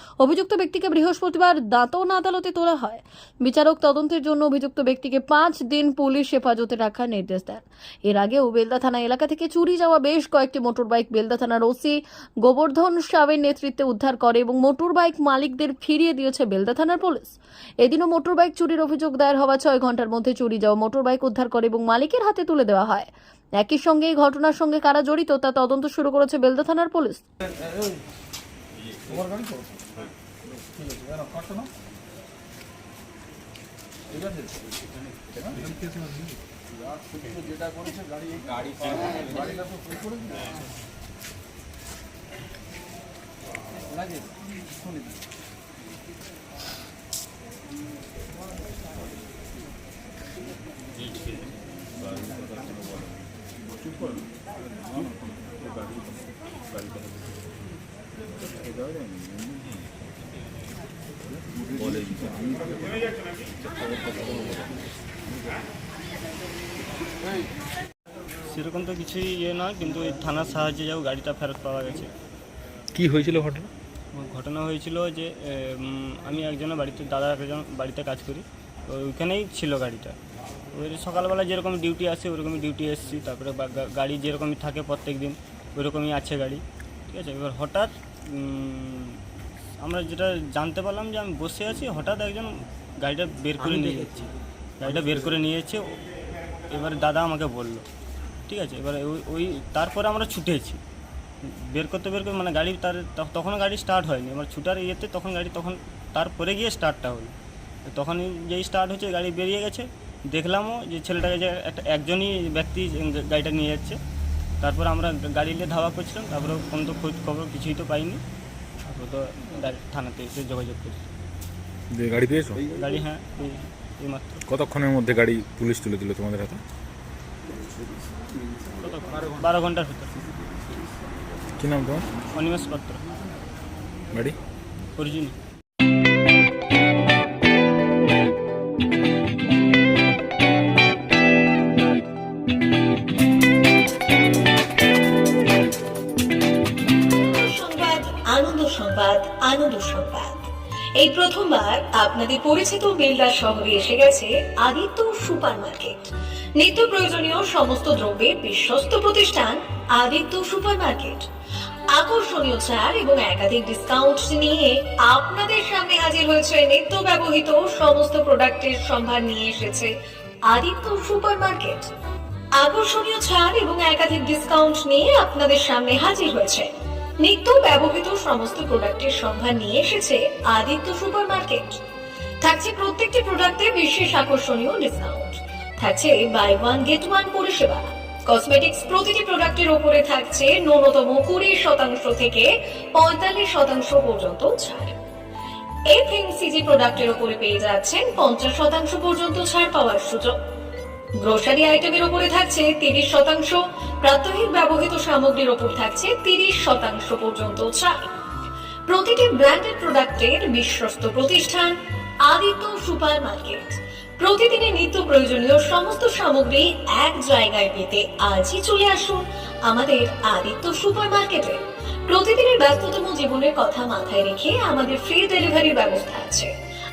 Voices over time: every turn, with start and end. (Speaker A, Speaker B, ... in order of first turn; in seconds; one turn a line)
Speaker A: 0.2-27.2
Speaker B: 29.2-29.6
Speaker B: 30.8-31.6
Speaker B: 37.3-38.2
Speaker C: 68.5-72.1
Speaker D: 72.9-73.7
Speaker C: 74.1-80.2
Speaker C: 80.7-89.2
Speaker C: 89.8-95.9
Speaker C: 96.7-97.9
Speaker C: 98.5-100.8
Speaker C: 101.4-107.3
Speaker C: 107.9-114.0
Speaker C: 114.6-118.2
Speaker C: 118.9-121.0
Speaker D: 121.9-122.6
Speaker C: 122.7-124.4
Speaker D: 124.5-126.6
Speaker C: 128.8-130.2
Speaker D: 131.6-132.1
Speaker C: 132.3-133.0
Speaker C: 135.0-135.4
Speaker E: 147.1-150.5
Speaker E: 151.0-161.3
Speaker E: 161.9-169.9
Speaker E: 170.5-171.9
Speaker E: 172.6-176.7
Speaker E: 177.2-181.8
Speaker E: 182.4-195.0
Speaker E: 195.9-200.3
Speaker E: 201.2-208.0
Speaker E: 208.9-211.8
Speaker E: 212.3-226.5